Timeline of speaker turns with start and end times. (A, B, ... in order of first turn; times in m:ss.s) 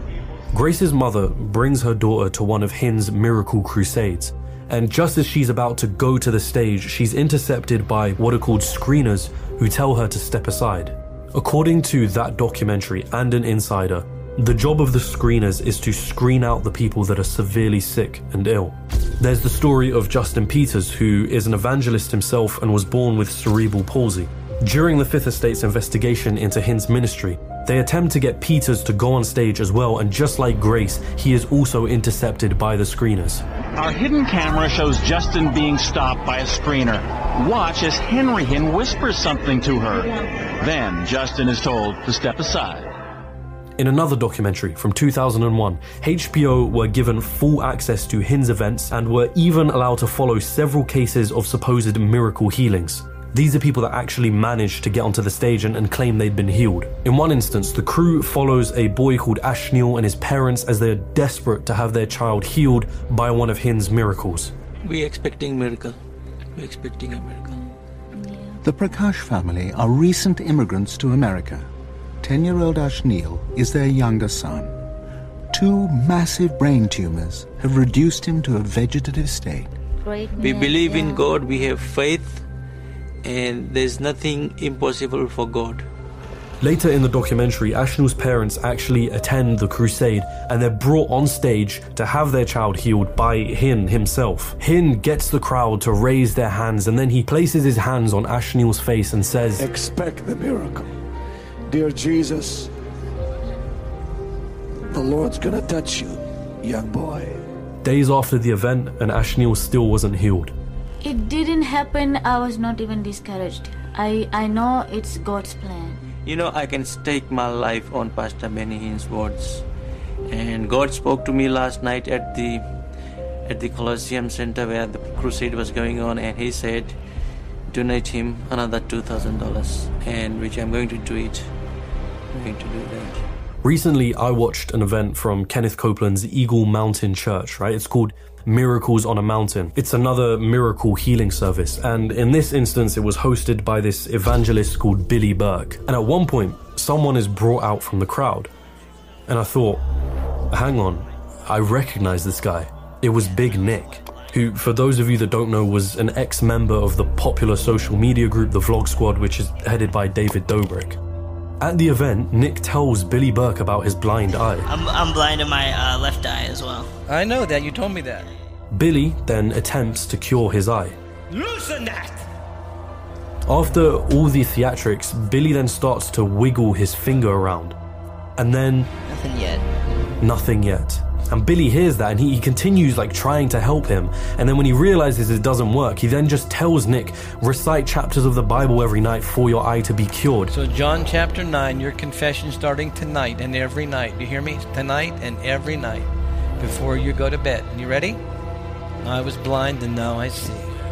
0:00.5-0:33.4 A
0:33.8-0:42.9 B
0:43.8-1:04.5 A
1:04.8-1:06.0 C
1:06.6-1:07.6 C
1:08.2-1:08.6 D
1:08.6-1:11.7 E
1:12.2-1:14.7 E
1:15.5-1:19.7 E
1:20.0-1:21.3 D
1:20.4-1:22.4 C
1:23.2-1:25.8 C
1:26.6-1:39.6 A
1:39.6-1:40.9 F
1:41.7-1:42.7 F
1:44.9-1:47.4 F
1:47.8-1:50.5 A
1:51.0-1:56.0 D
1:56.2-1:59.6 C
2:00.3-2:02.6 C
2:03.5-2:07.0 C
2:07.7-2:11.5 C
2:12.3-2:13.2 C
2:13.6-2:28.5 A
2:29.3-2:29.8 A
2:30.5-2:41.0 A
2:41.6-2:44.7 A
2:44.7-2:46.8 G
2:47.1-2:48.2 H
2:48.7-2:51.0 A
2:53.5-2:57.8 A
2:58.4-2:58.9 A
3:00.2-3:10.5 A
3:10.5-3:16.1 H
3:16.6-3:18.2 H
3:19.0-3:20.7 H